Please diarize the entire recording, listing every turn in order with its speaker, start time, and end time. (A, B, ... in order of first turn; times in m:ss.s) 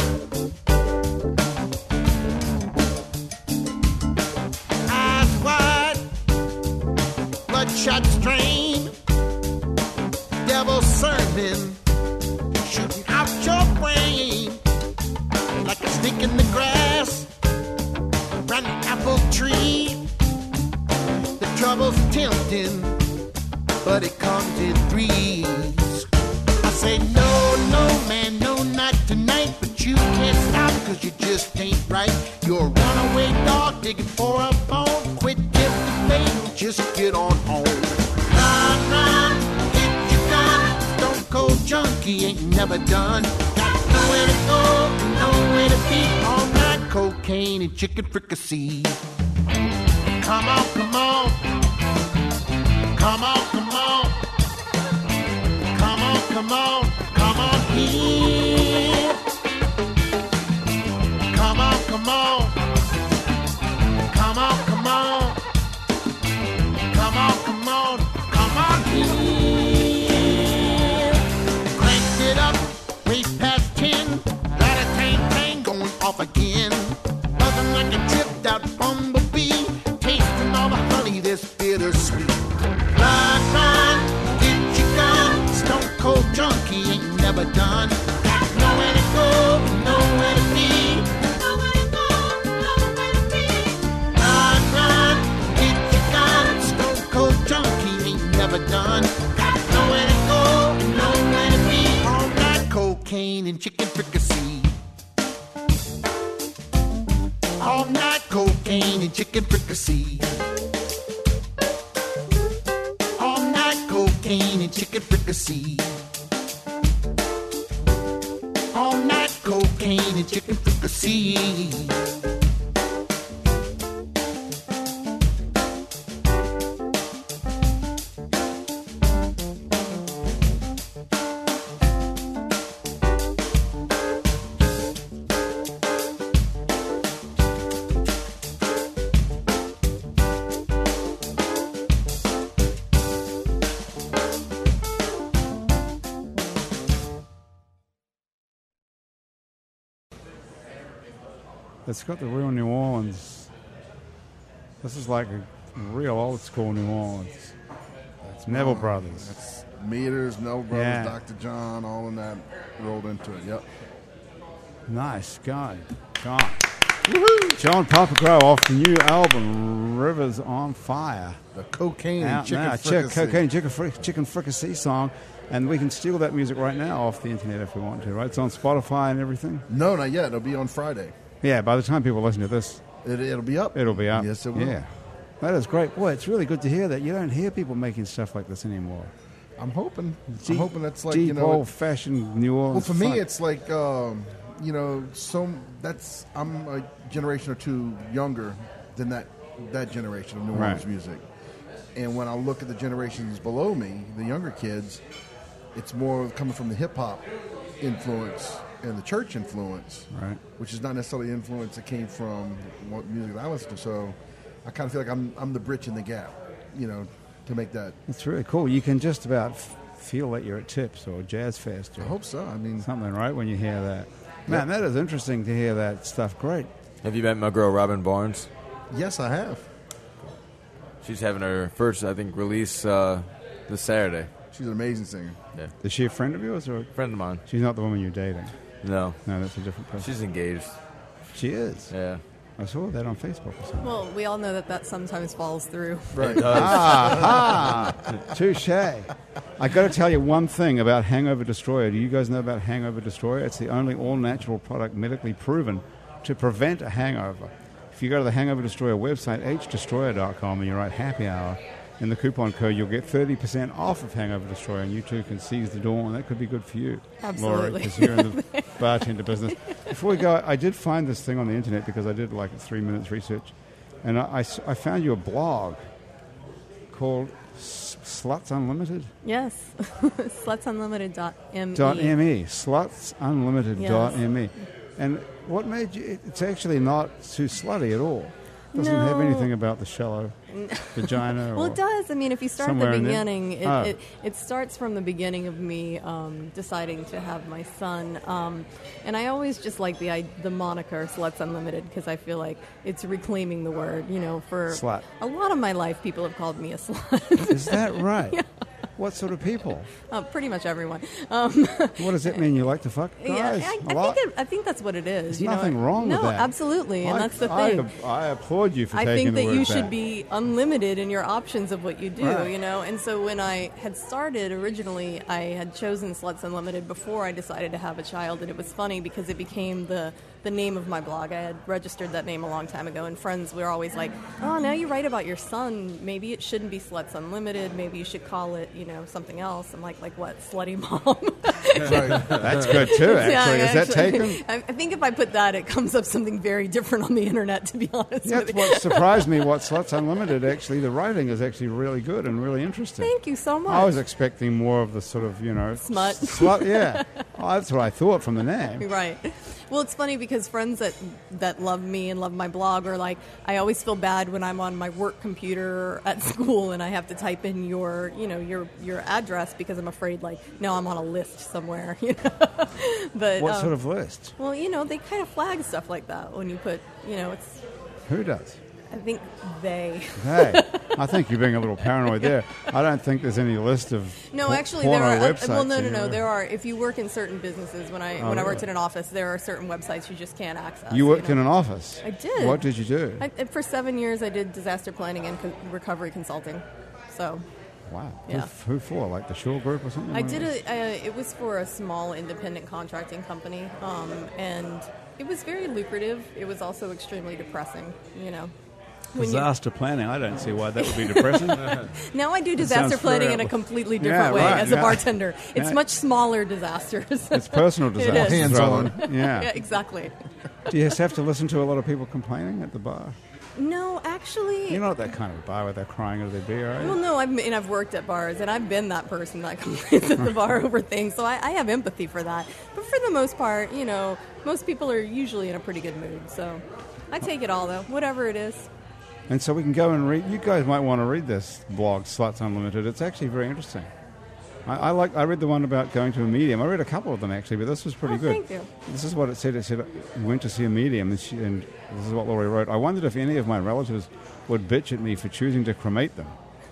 0:04.9-0:06.1 A
0:07.5-0:08.9 A
0:10.4-0:11.8 A
0:12.5-0:14.6 A
0:15.6-0:17.3 A
0:18.4-0:20.1 A
0:21.4-0:23.0 A
0:23.8-0:26.1 A
0:26.6-0:49.0 A
0:50.1-0:51.4 A
0:52.9-0:54.2 A
0:55.7-0:59.2 A
1:01.3-1:02.6 A
1:03.9-1:05.4 A
1:06.8-1:44.8 A
1:47.6-1:50.3 A
1:53.2-1:56.0 A
1:58.7-2:02.0 A
2:31.8-2:33.5 B
2:34.8-2:37.5 B
2:38.2-2:39.3 B
2:38.5-2:43.6 C
2:40.7-2:41.2 B
2:44.9-2:46.7 B
2:47.0-2:47.6 C
2:47.5-2:51.4 B
2:51.5-2:53.4 C
2:52.2-2:59.6 B
2:59.7-3:01.1 C
3:01.4-3:02.8 B
3:03.0-3:04.8 C
3:03.7-3:09.1 B
3:09.6-3:11.6 C
3:10.3-3:13.2 B
3:12.7-3:21.2 C
3:20.5-3:20.8 B
3:21.9-3:25.0 C
3:25.7-3:27.3 C
3:27.8-3:38.0 C
3:30.1-3:30.4 B
3:38.1-3:42.1 B
3:42.0-3:42.9 C
3:42.8-3:46.7 B
3:47.0-3:48.5 D
3:48.9-3:49.7 C
3:51.0-3:54.3 D
3:54.5-3:55.4 C
3:55.8-3:56.9 B
3:57.0-3:57.4 D
3:57.4-3:58.5 B
3:58.8-3:59.2 D
3:59.2-4:00.1 B
4:00.0-4:00.7 D
4:01.3-4:01.9 B
4:01.9-4:02.2 D
4:02.6-4:04.0 B
4:03.8-4:06.4 E
4:06.2-4:06.9 C
4:06.2-4:07.7 D
4:06.4-4:35.8 B
4:27.2-4:29.9 E
4:36.9-4:39.1 B
4:39.2-4:42.2 E
4:41.7-4:50.3 B
4:43.8-4:44.2 E
4:48.7-4:49.5 E
4:50.5-5:08.4 E
4:50.9-4:51.8 B
4:52.6-4:53.9 B
5:04.7-5:05.0 B
5:07.5-5:08.4 B
5:09.0-5:09.9 B
5:10.1-5:12.4 E
5:12.0-5:14.2 B
5:13.2-5:17.9 E
5:15.3-5:19.9 B
5:18.9-5:49.3 E
5:22.2-5:22.5 B
5:41.8-5:42.4 C
5:42.2-5:44.4 B
5:48.2-5:53.1 B
5:53.0-5:54.0 E
5:53.7-5:58.8 B
5:55.8-5:57.2 E
5:58.8-6:13.8 E
6:13.4-6:14.3 B
6:14.4-6:17.6 E
6:18.1-6:18.6 B
6:18.9-6:21.0 E
6:20.2-6:26.2 B
6:24.3-6:31.4 E
6:28.2-6:28.7 B
6:30.9-6:33.2 B
6:32.0-6:32.6 E
6:33.2-6:37.4 E
6:37.9-6:40.5 B
6:40.1-6:48.5 E
6:49.1-6:49.5 E
6:49.2-6:51.9 B
6:50.8-7:00.2 E
6:52.6-6:55.8 B
6:57.3-6:59.5 B
6:58.1-6:59.0 C
7:00.7-7:03.2 B
7:03.6-7:04.9 E
7:04.7-7:07.0 B
7:06.8-7:18.7 E
7:19.3-7:23.9 B
7:24.6-7:36.3 B
7:28.0-7:28.7 E